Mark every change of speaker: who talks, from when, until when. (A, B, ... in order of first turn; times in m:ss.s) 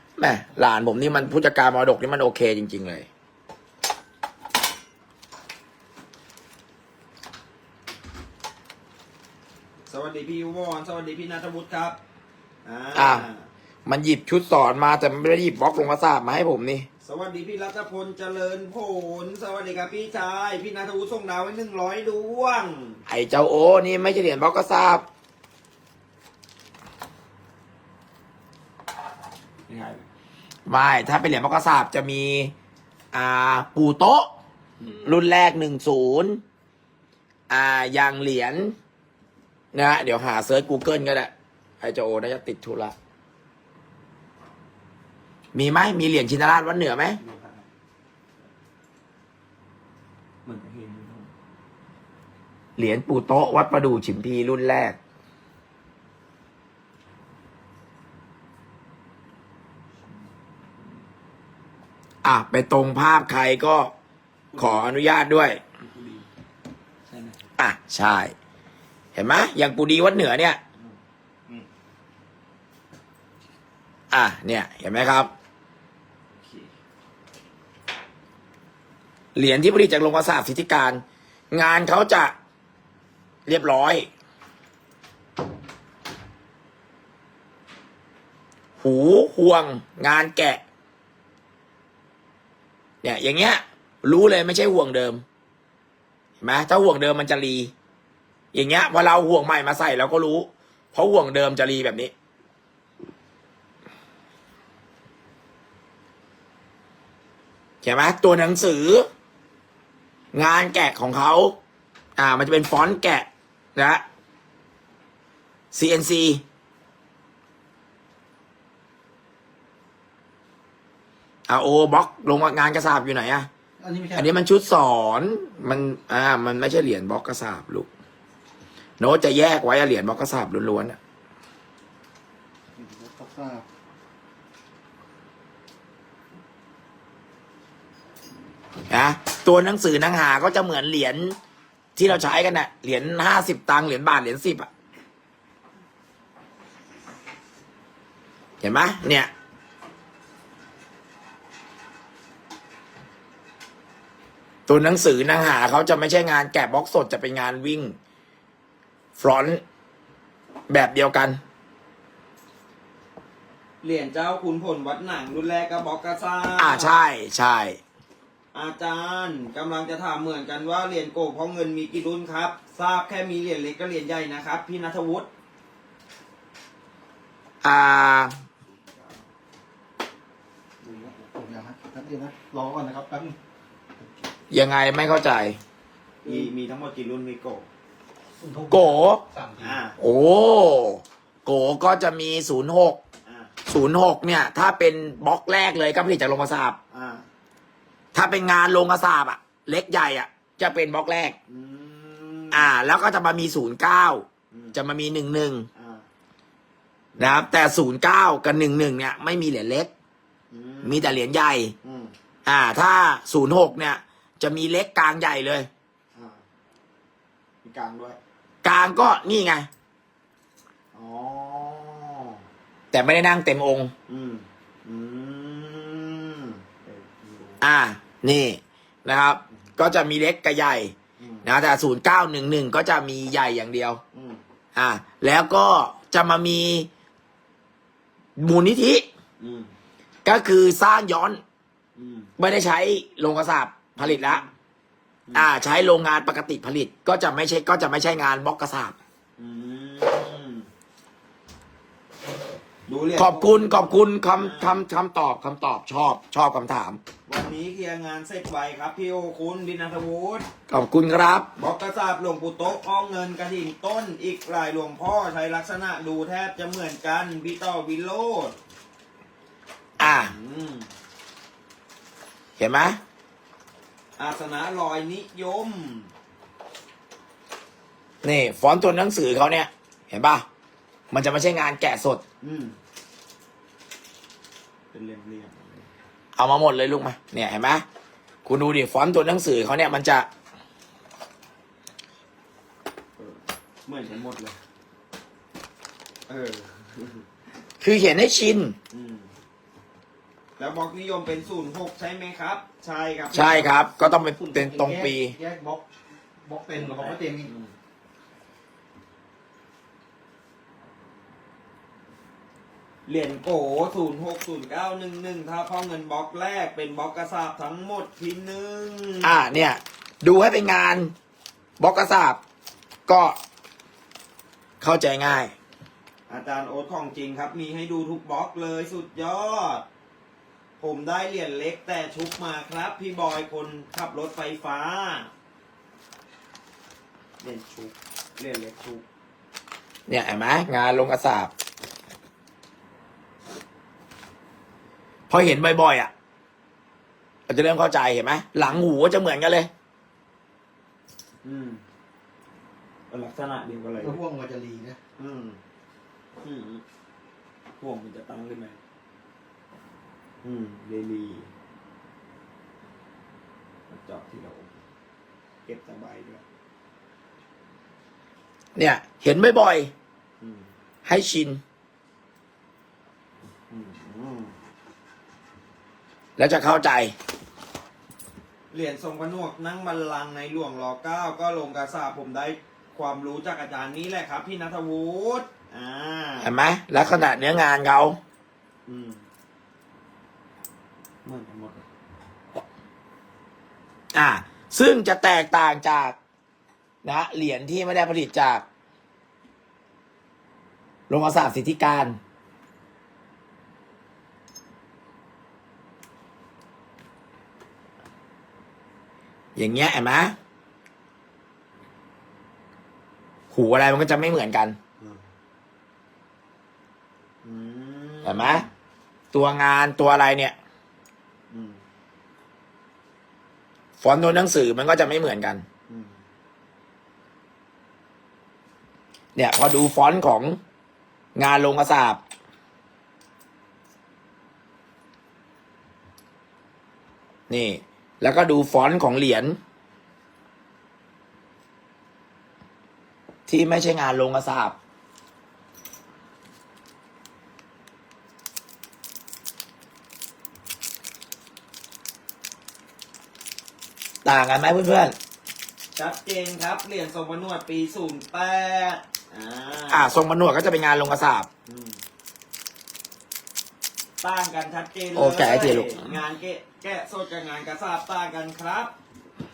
0:00.2-0:03.1 A
0:09.9-0:12.0 B
0:12.6-0:13.5 B
0:12.9-0:13.2 A
0:13.9-0:16.9 A
0:17.0-0:23.0 B
0:23.1-0:25.0 A
0:29.7-0:30.0 B
0:30.7-0:32.5 A
0:33.1-0:34.3 A
0:35.0-0:36.4 A
0:37.5-0:38.7 A
0:39.7-0:41.3 A
0:41.8-0:42.9 A
0:45.5-0:47.2 A
0:47.2-0:47.7 B
0:50.4-0:51.3 B
0:52.8-0:55.0 A
1:02.2-1:03.9 A
1:04.5-1:05.0 B
1:04.6-1:05.6 A
1:05.8-1:06.3 B
1:07.1-1:07.4 B
1:07.6-1:08.3 A
1:09.2-1:10.6 A
1:10.8-1:11.7 B
1:14.1-1:15.3 A
1:16.3-1:16.7 B
1:19.4-1:22.4 A
1:23.5-1:24.1 A
1:28.8-1:30.6 A
1:33.0-1:35.2 A
1:36.4-1:37.7 A
1:38.5-1:42.1 A
1:47.8-1:49.1 A
1:50.3-1:51.6 A
1:52.2-1:54.0 A
1:55.7-1:56.4 A
2:01.5-2:03.5 A
2:03.8-2:04.3 C
2:04.1-2:07.9 A
2:09.0-2:11.0 A
2:12.8-2:13.6 C
2:18.9-2:21.4 A
2:22.0-2:24.7 A
2:28.6-2:29.3 A
2:34.7-2:38.0 A
2:39.2-2:39.6 A
2:40.7-2:41.4 A
2:43.8-2:46.9 B
2:46.6-2:47.8 A
2:48.5-2:55.3 B
2:57.6-2:58.4 A
3:00.8-3:03.3 C
3:04.5-3:05.6 A
3:06.2-3:07.7 B
3:08.4-3:09.8 C
3:08.7-3:09.2 A
3:09.6-3:10.0 B
3:10.0-3:13.0 A
3:13.2-3:13.5 B
3:13.7-3:16.8 A
3:16.9-3:17.2 B
3:18.1-3:21.4 A
3:21.5-3:22.7 B
3:22.5-3:25.7 A
3:24.5-3:24.8 B
3:25.8-3:26.1 B
3:27.2-3:27.5 B
3:27.2-3:29.9 A
3:30.5-3:31.2 B
3:30.8-3:31.7 A
3:31.8-3:32.1 B
3:32.5-3:35.7 A
3:36.1-3:36.4 B
3:37.6-3:38.2 B
3:38.6-3:39.7 A
3:40.9-3:42.4 B
3:42.9-3:43.9 A
3:44.1-3:47.7 B
3:47.6-3:54.0 A
3:51.2-3:51.5 B
3:54.1-3:54.4 B
3:54.8-3:56.9 A
3:58.4-3:59.1 A
3:59.4-3:59.7 B
4:00.2-4:01.4 A
4:02.0-4:02.3 B
4:02.4-4:04.4 A
4:04.0-4:04.5 B
4:05.4-4:09.0 A
4:09.4-4:10.7 B
4:12.9-4:14.8 B
4:13.2-4:17.0 A
4:17.3-4:20.5 B
4:20.7-4:21.5 A
4:21.6-4:28.6 B
4:30.0-4:30.3 A
4:30.0-4:30.9 B
4:32.6-4:33.0 A
4:34.2-4:36.1 B
4:38.2-4:40.4 A
4:41.1-4:42.2 A
4:42.4-4:42.8 B
4:44.9-4:45.9 B
4:46.4-4:47.8 A
4:48.5-4:50.3 A
4:53.2-4:54.6 B
4:56.3-4:57.2 B
4:57.8-4:58.8 A
4:58.9-4:59.3 B
5:00.6-5:03.9 B
5:03.3-5:05.3 A
5:04.2-5:05.8 C
5:06.5-5:07.5 C
5:06.8-5:07.7 B
5:13.1-5:19.4 B
5:19.2-5:21.1 A
5:21.8-5:22.4 A
5:23.1-5:23.4 A
5:24.8-5:25.5 A
5:26.3-5:29.8 B
5:30.8-5:35.3 B
5:37.4-5:39.0 B
5:40.1-5:41.5 A
5:45.3-5:46.1 A
5:47.5-5:49.7 A
5:51.4-5:51.8 B
5:53.1-5:54.2 B
5:54.0-5:55.0 C
5:55.2-5:55.6 B
5:56.4-5:56.8 B
5:57.8-5:58.8 B
6:00.4-6:01.5 B
6:03.9-6:04.7 B
6:05.6-6:06.4 B
6:08.8-6:09.9 A
6:10.4-6:10.7 B
6:11.0-6:11.6 A
6:13.7-6:14.5 B
6:16.4-6:17.1 A
6:18.7-6:27.4 B
6:26.4-6:28.2 A
6:28.9-6:29.2 B
6:31.2-6:31.8 B
6:34.1-6:36.2 A
6:37.0-6:38.6 A
6:41.1-6:42.2 A
6:49.6-6:50.4 A
6:53.5-6:54.8 A
6:57.4-6:58.7 B
6:58.2-6:58.6 A
6:59.3-7:00.6 A
7:01.5-7:01.8 B
7:04.0-7:05.6 A
7:05.9-7:06.2 B
7:09.4-7:10.6 A
7:11.4-7:12.2 A
7:17.5-7:19.6 A
7:23.5-7:24.8 A
7:34.2-7:35.2 A
7:36.0-7:40.1 B
7:39.9-7:41.5 A
7:41.7-7:42.0 B
7:44.2-7:48.9 B
7:45.2-7:46.0 A